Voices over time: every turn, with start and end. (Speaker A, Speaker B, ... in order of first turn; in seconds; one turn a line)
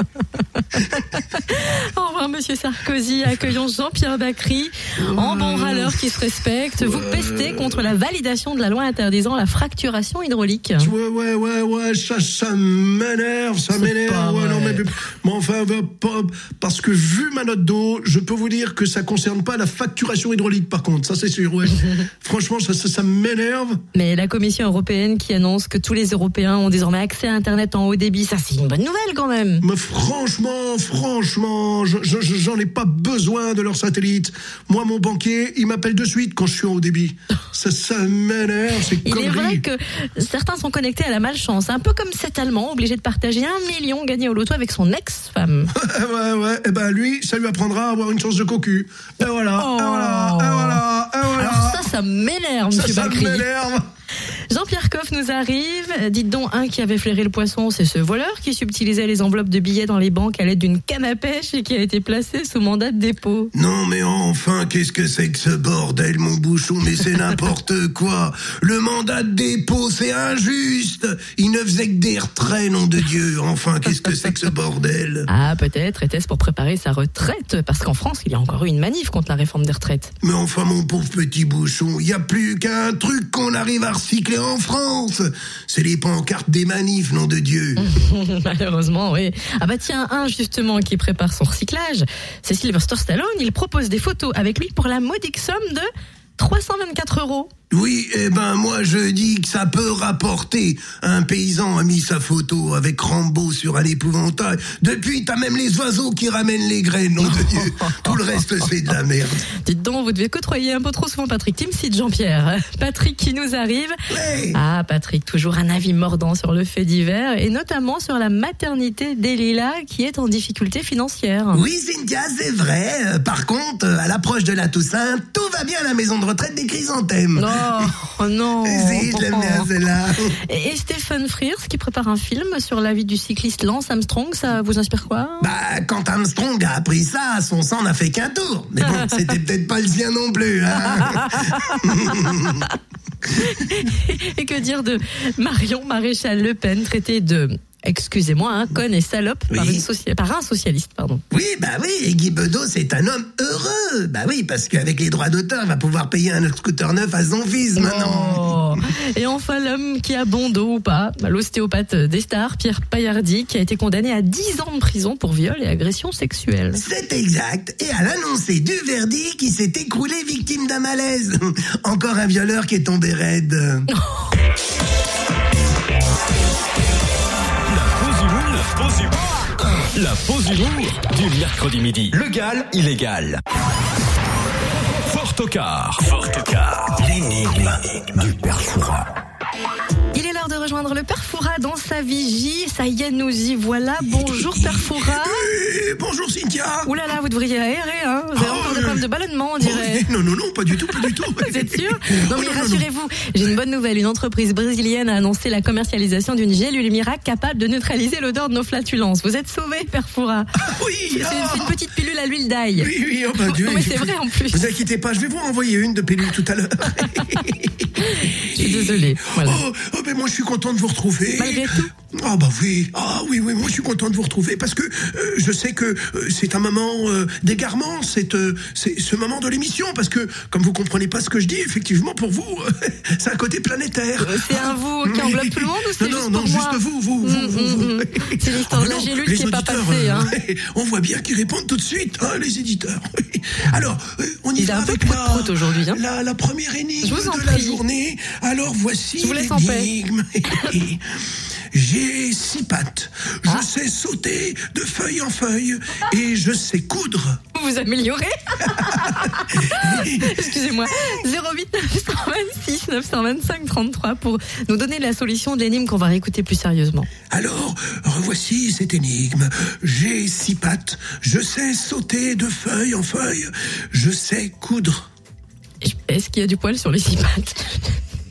Speaker A: 0.7-10.9
Speaker B: 5.0-6.2
Speaker B: 6.8-7.8
Speaker B: 10.8-23.8
Speaker A: 13.7-14.8
Speaker A: 23.9-29.6
Speaker B: 29.6-39.6
Speaker A: 39.0-45.7
Speaker B: 45.7-51.9
Speaker A: 49.5-53.5
Speaker B: 52.7-53.9
Speaker A: 54.5-63.5
Speaker B: 63.5-75.3
Speaker A: 75.3-80.1
Speaker B: 80.2-87.9
Speaker A: 87.8-97.5
Speaker B: 97.7-109.5
Speaker A: 107.2-108.2
Speaker A: 109.6-114.0
Speaker B: 114.1-114.6
Speaker A: 114.5-121.6
Speaker B: 121.5-127.9
Speaker A: 127.3-129.7
Speaker B: 128.6-130.4
Speaker A: 130.5-135.5
Speaker B: 135.4-142.7
Speaker A: 141.0-142.7
Speaker A: 143.3-151.2
Speaker B: 149.5-149.8
Speaker B: 151.3-158.8
Speaker A: 157.8-166.8
Speaker B: 166.7-173.9
Speaker A: 173.9-174.3
Speaker C: 177.7-183.4
Speaker C: 185.0-189.1
Speaker A: 190.1-195.5
Speaker B: 194.2-196.9
Speaker A: 196.8-200.1
Speaker B: 198.3-199.1
Speaker B: 199.6-202.8
Speaker A: 200.9-210.5
Speaker B: 210.6-211.8
Speaker A: 211.1-214.7
Speaker B: 212.8-251.1
Speaker A: 218.0-219.6
Speaker A: 221.4-221.9
Speaker A: 234.2-240.3
Speaker A: 244.6-246.0
Speaker A: 247.0-247.8
Speaker A: 249.2-249.9
Speaker B: 251.7-257.4
Speaker A: 257.5-267.1
Speaker B: 258.7-260.5
Speaker B: 267.3-275.1
Speaker A: 275.8-278.0